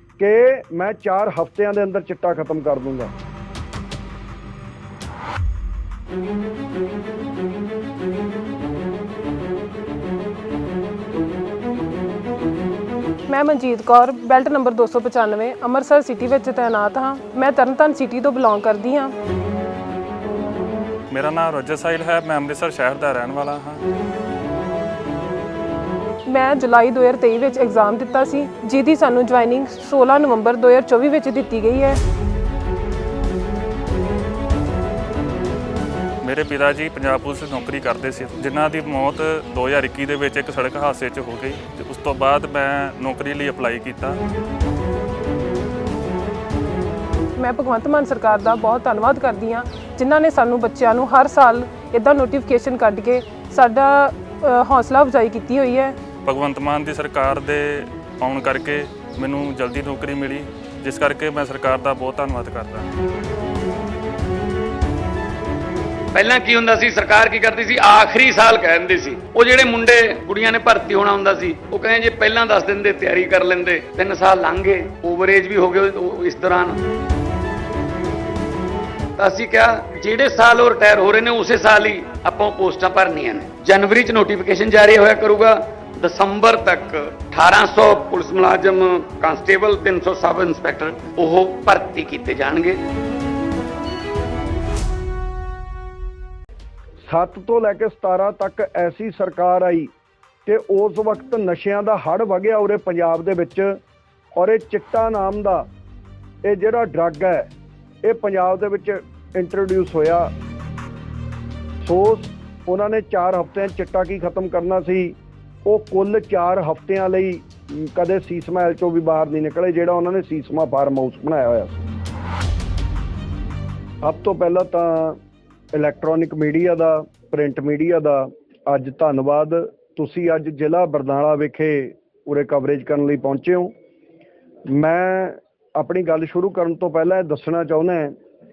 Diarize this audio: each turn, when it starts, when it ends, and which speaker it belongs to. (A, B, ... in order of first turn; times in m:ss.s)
0:00.2-0:03.1 A
0:13.3-0:19.1 B
0:21.1-0:23.8 C
0:26.3-0:32.0 B
0:36.2-0:44.2 C
0:47.4-0:56.0 B
0:56.2-1:02.9 C
1:06.1-1:16.8 D
1:19.2-1:32.8 D
1:37.0-1:39.9 A
1:40.4-1:43.8 A
1:44.3-1:45.7 A
1:46.4-1:47.5 A
1:48.0-1:50.3 A
1:51.8-2:01.8 A
2:04.0-2:05.2 A
2:05.7-2:13.7 A
2:14.7-2:18.1 A